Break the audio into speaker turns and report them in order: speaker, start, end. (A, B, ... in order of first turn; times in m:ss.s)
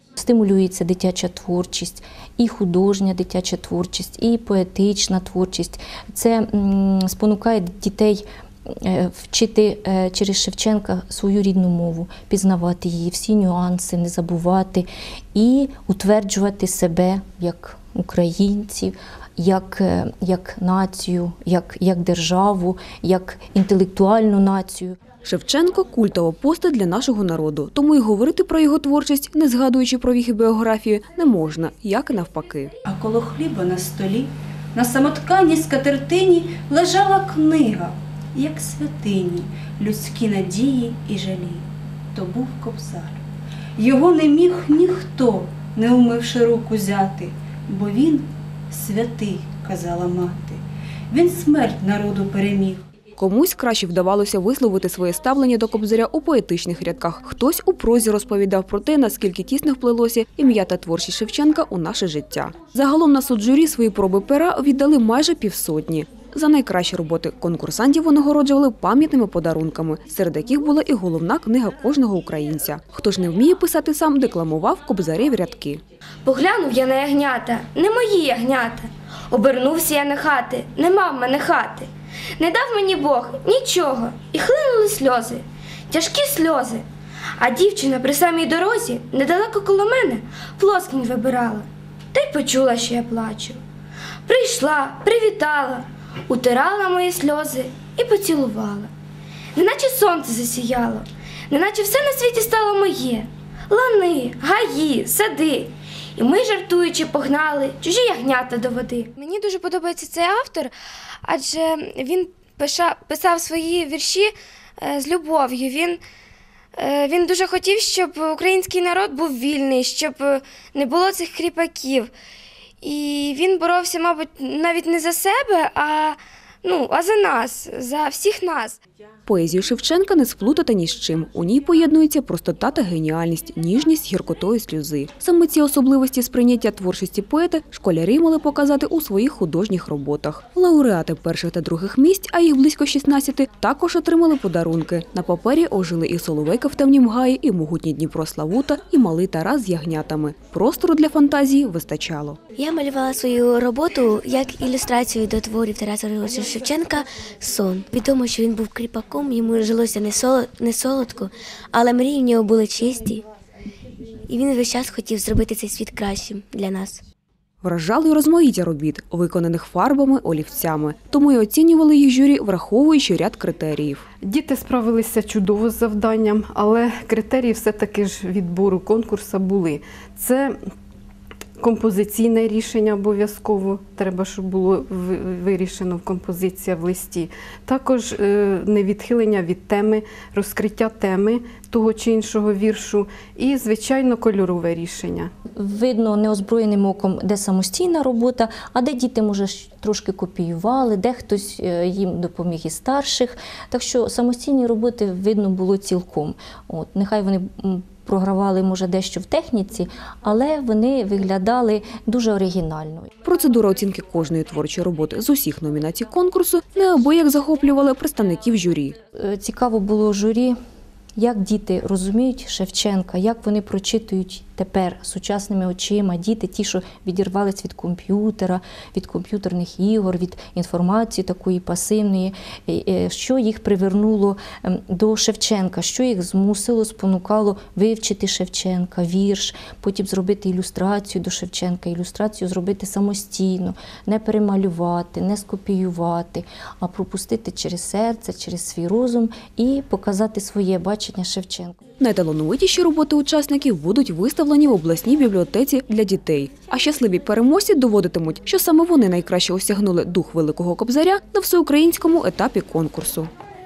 0:00.2-0:25.0 A
0:25.2-0:32.7 B
0:32.8-0:43.2 C
0:43.8-0:52.8 C
0:53.2-1:15.8 B
1:16.2-1:26.8 D
1:27.4-1:33.6 D
1:34.2-1:38.9 D
1:39.6-1:56.0 D
1:56.8-2:02.1 D
2:02.8-2:08.8 D
2:09.3-2:32.4 B
2:32.6-2:43.2 E
2:44.3-2:47.0 E
2:47.6-2:54.0 B
2:54.2-3:00.6 F
3:01.6-3:15.3 F
3:15.6-3:33.1 A
3:33.2-3:39.0 B
3:39.1-3:40.6 A
3:41.2-4:11.8 A
4:12.0-4:23.3 B